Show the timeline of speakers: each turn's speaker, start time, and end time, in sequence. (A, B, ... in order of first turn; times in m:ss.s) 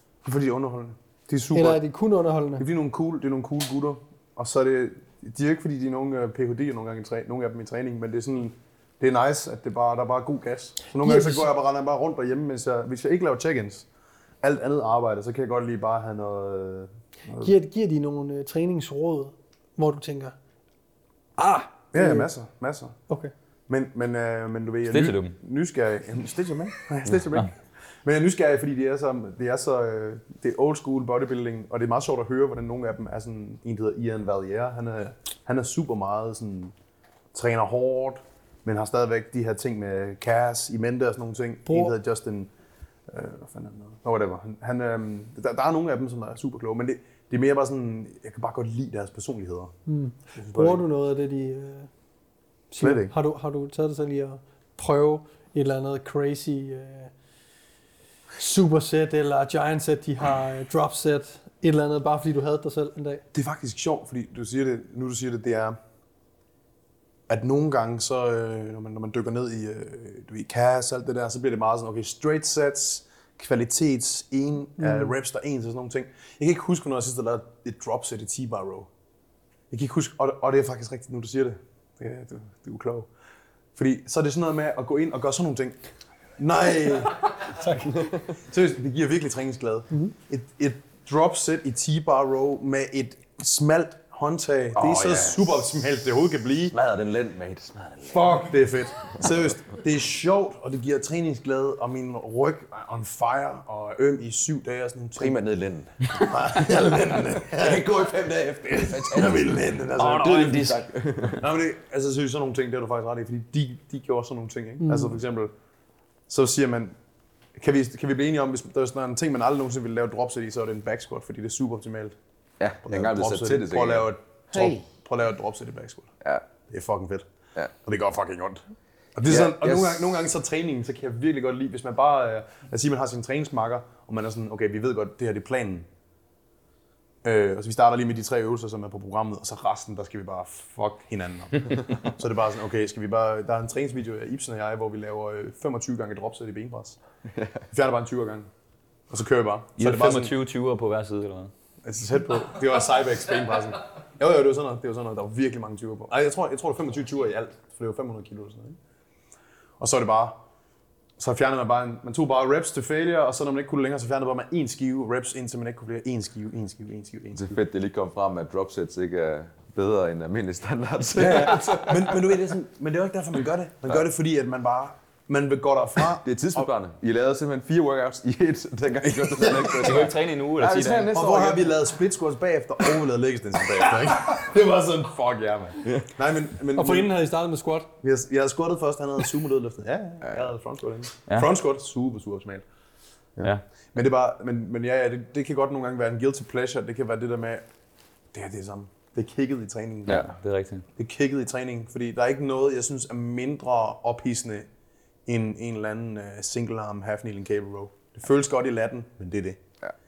0:00.2-0:01.8 A
0:01.5-0:02.6 B
0:02.6-0:13.8 A
0:10.9-0:11.5 B
0:14.4-0:17.5 A
0:17.4-0:20.3 B
0:21.4-0:22.3 B
0:21.9-0:22.9 A
0:23.7-0:27.5 A
0:24.9-0:25.4 C
0:28.0-0:36.7 A
0:37.3-0:42.5 A
0:41.7-0:41.9 B
0:43.1-0:49.7 A
0:49.9-0:51.9 B
0:50.4-0:50.8 A
0:52.7-0:57.1 B
0:52.8-0:53.1 A
0:58.4-1:03.2 B
1:03.3-1:05.8 A
1:07.3-1:18.9 A
1:14.8-1:15.1 B
1:19.7-1:23.1 A
1:23.8-1:25.8 A
1:26.4-1:27.8 A
1:28.3-1:36.8 A
1:34.7-1:35.6 D
1:36.7-1:38.4 D
1:38.0-1:45.4 A
1:45.2-1:46.2 D
1:46.2-1:47.9 A
1:47.4-1:49.5 D
1:48.8-1:50.6 A
1:50.0-1:50.8 C
1:50.1-1:51.4 D
1:51.4-1:55.5 A
1:54.8-1:55.2 B
1:56.3-1:57.0 A
1:57.5-2:02.2 A
2:02.6-2:04.8 D
2:02.8-2:06.1 A
2:06.7-2:08.6 A
2:09.2-2:15.9 A
2:09.2-2:10.1 D
2:17.2-2:27.0 A
2:27.7-2:28.5 A
2:29.1-2:30.3 A
2:29.8-2:31.5 C
2:31.8-2:38.8 A
2:39.8-2:40.4 A
2:41.2-2:47.5 A
2:47.3-2:52.2 D
2:51.1-2:56.7 A
2:56.2-3:01.6 D
2:59.0-3:00.1 A
2:59.8-3:01.2 C
3:00.6-3:07.1 A
3:06.7-3:07.9 B
3:08.0-3:12.6 A
3:13.4-3:17.6 A
3:18.3-3:20.3 A
3:20.1-3:20.8 C
3:21.0-3:24.7 A
3:25.2-3:29.6 A